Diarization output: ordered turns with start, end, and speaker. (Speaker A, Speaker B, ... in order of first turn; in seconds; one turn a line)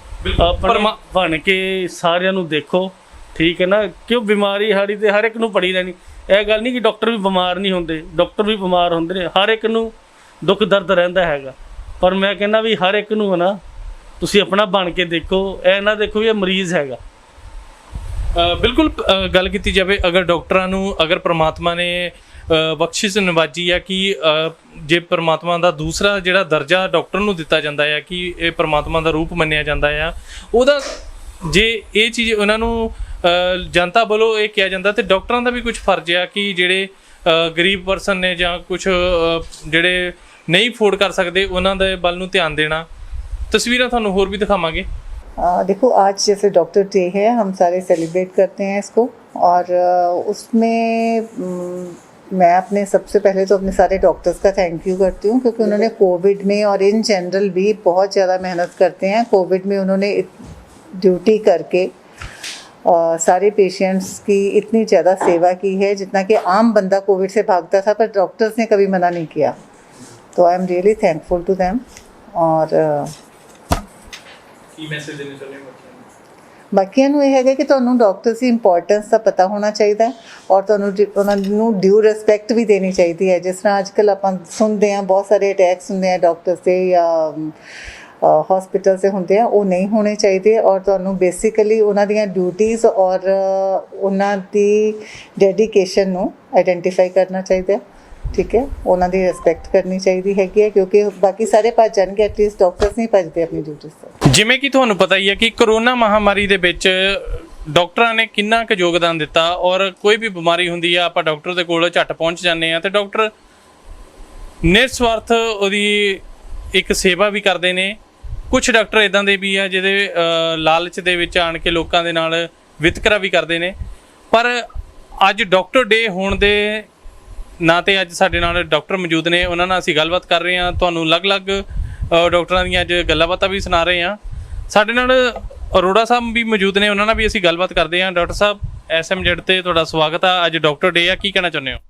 Speaker A: 0.2-0.9
Speaker B: 0.4-13.6
Speaker B: 14.2-17.0
Speaker A: 18.3-30.9
Speaker A: 31.4-42.9
Speaker A: 43.5-44.9
Speaker C: 45.4-60.3
Speaker C: 61.0-61.9
Speaker C: 62.9-69.5
Speaker C: 70.3-71.8
Speaker C: 72.3-73.1
Speaker A: 74.8-76.0
Speaker C: 76.7-87.5
Speaker C: 88.2-97.8
Speaker C: 98.3-104.1
Speaker A: 104.3-113.3
Speaker A: 114.6-118.0
Speaker A: 118.5-123.7
Speaker A: 124.3-124.6
Speaker A: 125.2-126.9
Speaker A: 127.6-134.2
Speaker A: 134.7-141.8